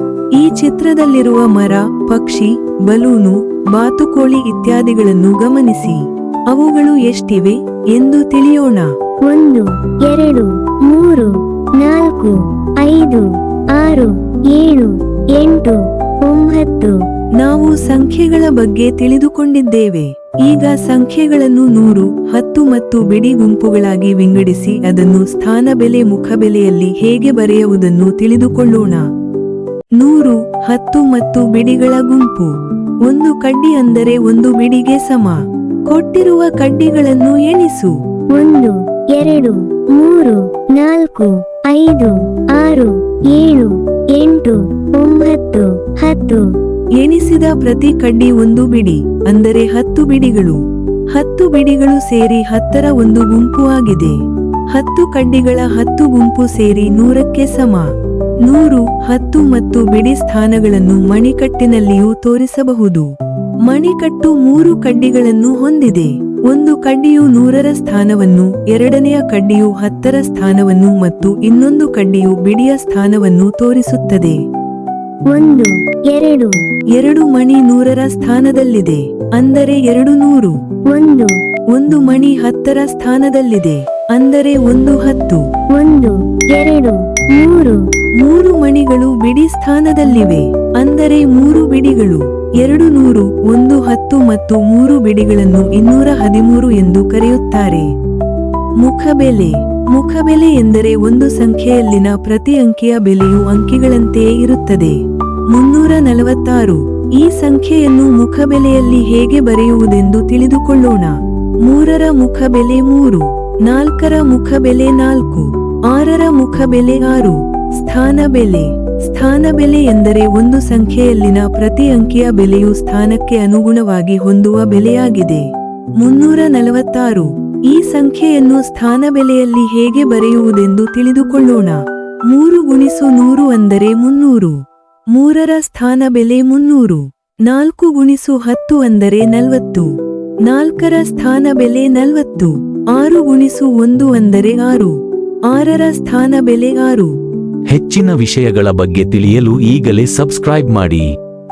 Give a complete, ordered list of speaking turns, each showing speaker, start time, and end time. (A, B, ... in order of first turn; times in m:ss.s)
0:00.4-0:06.0 A
0:06.5-0:08.9 A
0:09.3-0:17.0 B
0:17.4-0:29.1 A
0:30.0-0:38.0 A
0:38.3-0:46.5 B
0:47.0-0:50.6 A
0:51.1-0:54.2 A
0:54.7-0:57.9 A
0:58.4-1:03.1 A
1:03.6-1:14.4 A
1:15.3-1:16.6 B
1:17.0-1:20.6 A
1:20.9-1:21.4 B
1:21.7-1:25.4 A
1:25.7-1:27.8 B
1:28.2-1:37.9 A
1:38.8-1:45.0 A
1:45.5-2:05.5 A
2:06.0-2:14.6 A
2:15.1-2:19.9 A
2:20.4-2:25.0 A
2:25.5-2:27.1 A
2:27.7-2:31.1 C